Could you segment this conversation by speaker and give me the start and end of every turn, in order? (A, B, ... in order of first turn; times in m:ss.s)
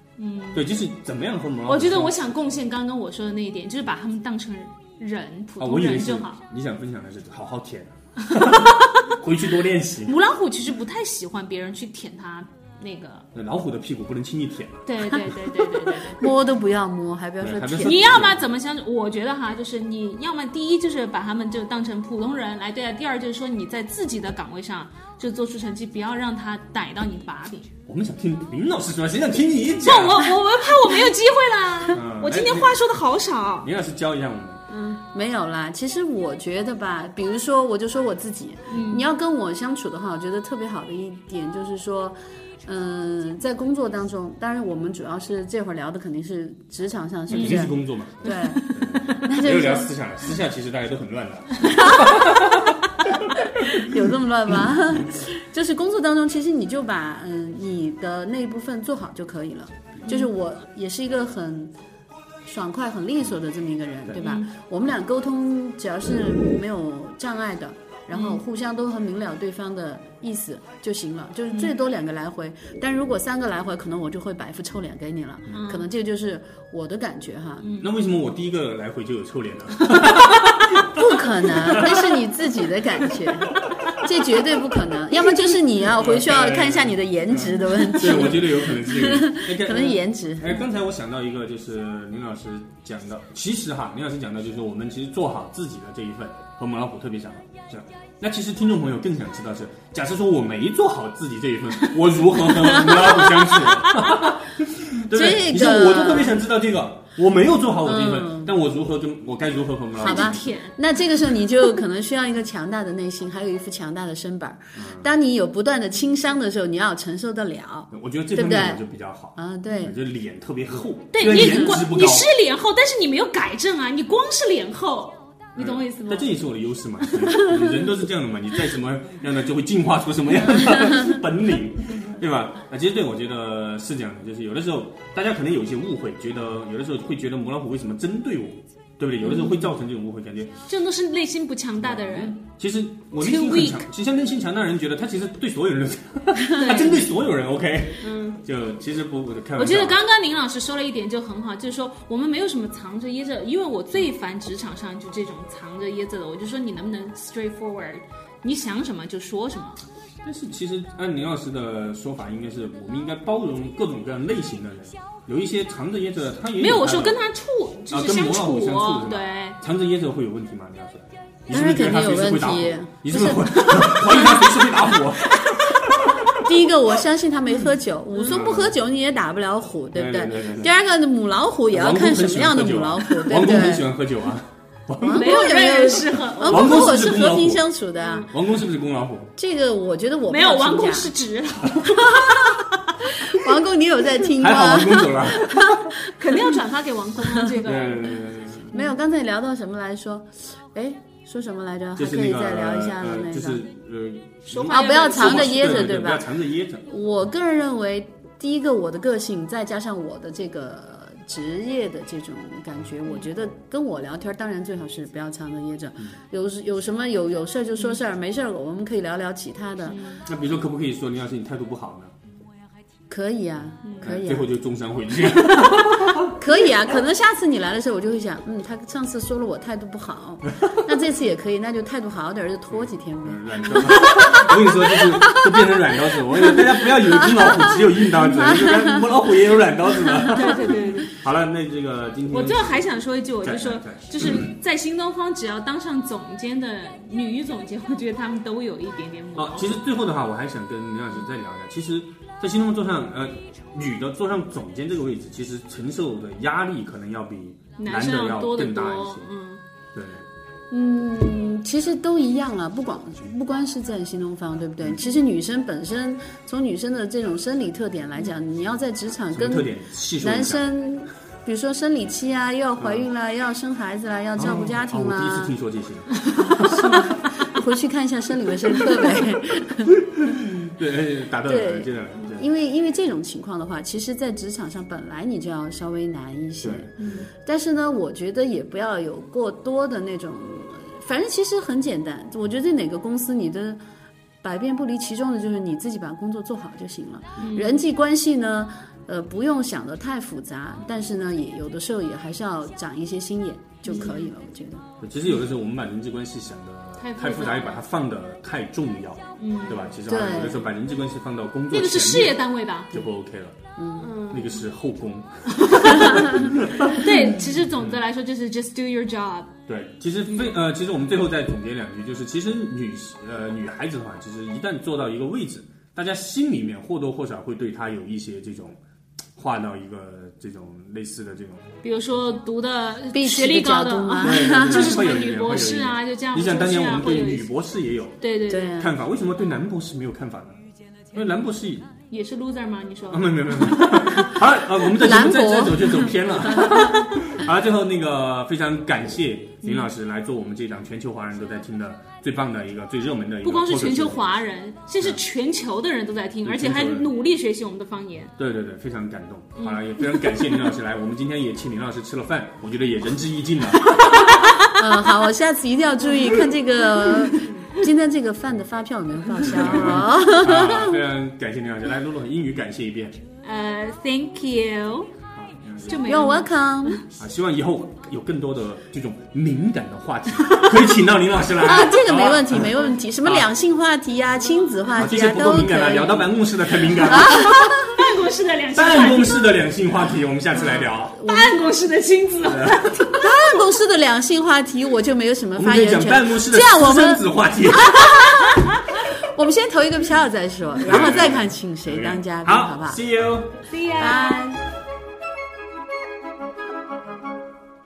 0:00.2-0:00.6 A
0:00.5-0:02.3 B
0:01.6-0:06.4 A
0:05.6-0:10.2 B
0:08.3-0:09.1 A
0:10.0-0:13.2 A
0:13.3-0:15.3 B
0:14.8-0:16.3 A
0:15.8-0:18.2 C
0:17.4-0:18.4 B
0:17.8-0:27.7 A
0:27.9-0:30.3 B
0:29.8-0:33.7 A
0:31.9-0:32.8 B
0:33.6-0:34.6 B
0:34.7-0:49.9 C
0:38.7-0:39.1 A
0:47.3-0:53.8 B
0:47.3-0:47.7 A
0:48.2-0:49.2 A
0:51.8-0:52.2 C
0:53.7-1:01.7 C
1:02.4-1:17.7 C
1:04.2-1:04.5 A
1:08.1-1:08.4 A
1:15.5-1:15.9 A
1:17.6-1:17.9 A
1:17.7-1:22.1 B
1:20.9-1:30.6 C
1:25.8-1:50.6 B
1:43.6-1:44.0 A
1:45.1-1:46.4 C
1:47.8-1:48.5 C
1:50.0-1:50.8 A
1:50.0-1:58.8 C
1:54.7-1:55.1 B
1:57.9-2:02.3 B
1:59.3-1:59.9 C
2:01.1-2:06.3 A
2:01.2-2:01.8 C
2:05.5-2:20.6 B
2:19.3-2:19.6 A
2:20.7-2:22.4 A
2:21.8-2:30.0 B
2:23.2-2:23.8 A
2:26.6-2:27.1 A
2:28.0-2:28.4 A
2:29.6-2:39.8 A
2:40.2-2:47.2 B
2:46.6-2:49.6 A
2:47.9-2:56.3 B
2:51.5-2:54.6 C
2:56.3-3:03.9 C
2:58.2-2:58.8 B
2:59.9-3:00.8 B
3:01.7-3:05.4 B
3:05.0-3:08.3 C
3:05.0-3:07.0 A
3:06.4-3:07.7 B
3:08.2-3:09.3 B
3:09.4-3:11.1 C
3:10.3-3:12.6 A
3:11.6-3:12.2 B
3:13.2-3:16.1 C
3:14.2-3:15.9 B
3:15.9-3:18.9 A
3:17.6-3:18.7 B
3:18.7-3:23.6 C
3:22.0-3:26.8 B
3:24.5-3:25.9 A
3:24.7-3:26.3 C
3:26.8-3:40.2 C
3:39.9-3:40.2 A
3:40.2-3:42.2 B
3:43.1-3:44.5 C
3:44.0-3:46.4 B
3:46.2-3:55.4 C
3:52.7-4:02.9 B
3:56.5-3:59.1 C
4:00.3-4:01.1 A
4:00.5-4:00.9 C
4:02.3-4:09.8 A
4:03.4-4:04.6 B
4:09.4-4:19.3 B
4:17.8-4:19.6 A
4:19.9-4:20.2 B
4:20.7-4:35.5 C
4:29.3-4:30.6 B
4:32.8-4:33.1 B
4:34.4-4:37.1 B
4:36.4-4:40.0 C
4:40.0-4:42.5 B
4:41.5-4:53.8 C
4:46.6-4:47.3 B
4:47.0-4:47.2 A
4:54.4-5:04.8 C
4:57.4-4:57.8 A
5:03.8-5:04.3 A
5:05.0-5:13.6 B
5:07.0-5:07.8 A
5:09.4-5:09.9 A
5:10.0-5:10.7 C
5:11.7-5:13.0 A
5:13.8-5:14.2 C
5:14.0-5:14.6 A
5:14.2-5:17.2 B
5:15.5-5:16.3 A
5:16.9-5:19.5 A
5:17.8-5:18.0 B
5:19.7-5:28.8 B
5:29.4-5:31.7 B
5:31.8-5:37.5 A
5:33.1-5:35.0 C
5:34.2-5:41.9 B
5:38.2-5:38.8 A
5:38.5-5:38.9 C
5:42.1-5:43.9 A
5:43.1-5:54.3 B
5:44.9-5:47.0 C
5:49.6-5:49.9 A
5:53.4-5:58.3 A
5:56.4-5:57.1 B
5:58.4-6:04.5 B
5:59.6-6:00.6 A
6:04.7-6:11.0 C
6:09.4-6:13.2 B
6:13.4-6:15.1 A
6:15.3-6:16.1 B
6:15.8-6:17.0 A
6:16.0-6:17.0 C
6:17.2-6:23.5 B
6:21.6-6:27.6 C
6:24.9-6:27.9 B
6:27.3-6:29.5 A
6:28.7-6:31.2 B
6:31.1-6:31.6 C
6:31.3-6:33.4 A
6:32.4-6:33.0 B
6:33.2-6:43.0 C
6:35.5-6:38.1 B
6:40.8-6:43.6 B
6:43.7-6:44.4 A
6:43.9-6:44.6 C